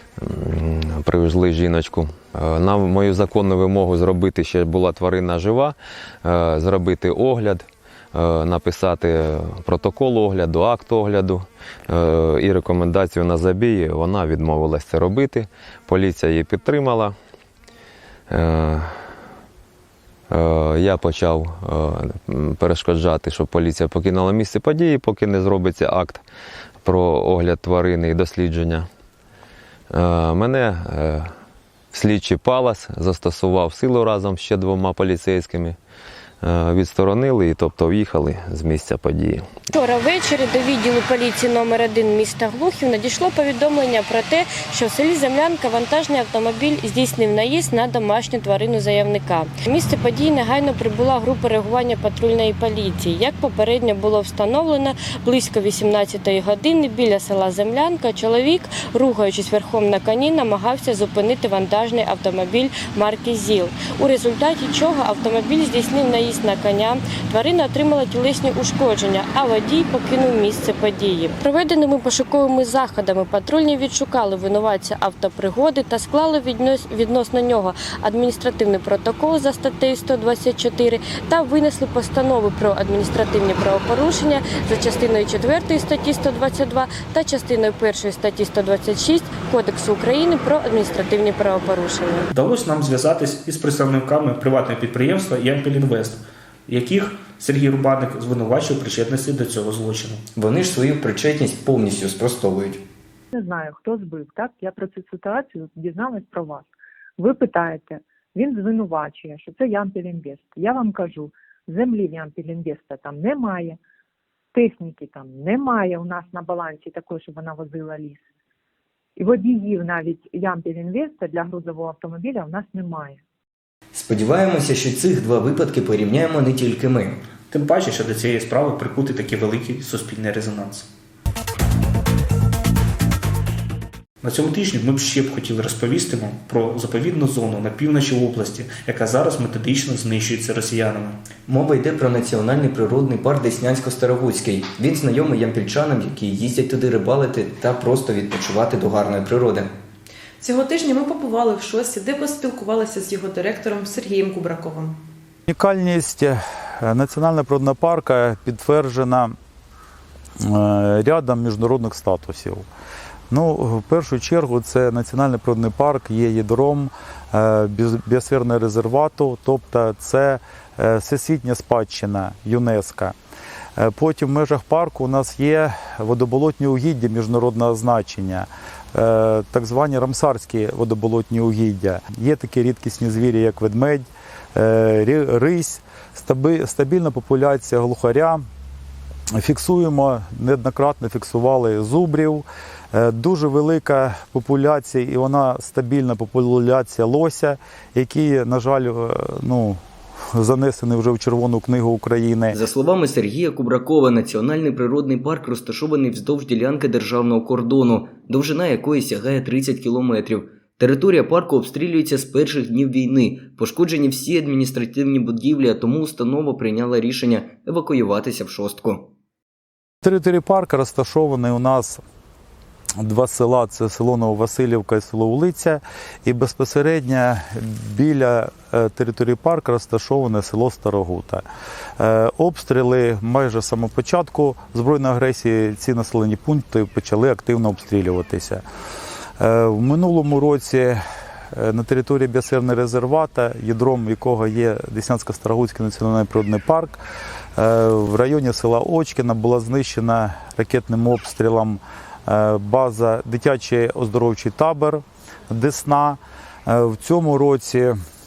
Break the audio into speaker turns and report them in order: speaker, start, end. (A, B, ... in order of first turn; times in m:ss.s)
0:00.2-0:17.1 A
0:18.3-0:19.0 A
0:20.3-0:26.2 A
0:26.8-0:28.9 A
0:29.9-0:31.3 A
0:31.9-0:35.8 A
0:36.4-0:39.4 A
0:39.7-1:32.3 B
1:32.3-1:40.2 C
1:40.4-1:42.8 D
1:43.3-1:53.8 E
1:54.5-1:58.2 E
1:59.2-2:03.2 E
2:03.9-2:07.2 D
2:07.5-2:10.9 C
2:14.2-2:21.2 C
2:21.5-2:29.7 D
2:30.4-2:34.9 F
2:35.5-2:39.4 G
2:40.4-2:42.6 G
2:43.3-2:53.2 G
2:53.8-3:08.4 G
3:09.4-3:19.8 G
3:20.4-3:22.6 G
3:22.5-3:39.1 D
3:40.0-3:42.0 G
3:43.0-3:51.4 G
3:52.0-3:58.6 G
3:59.4-4:01.0 G
4:01.5-4:07.0 G
4:07.6-4:18.0 G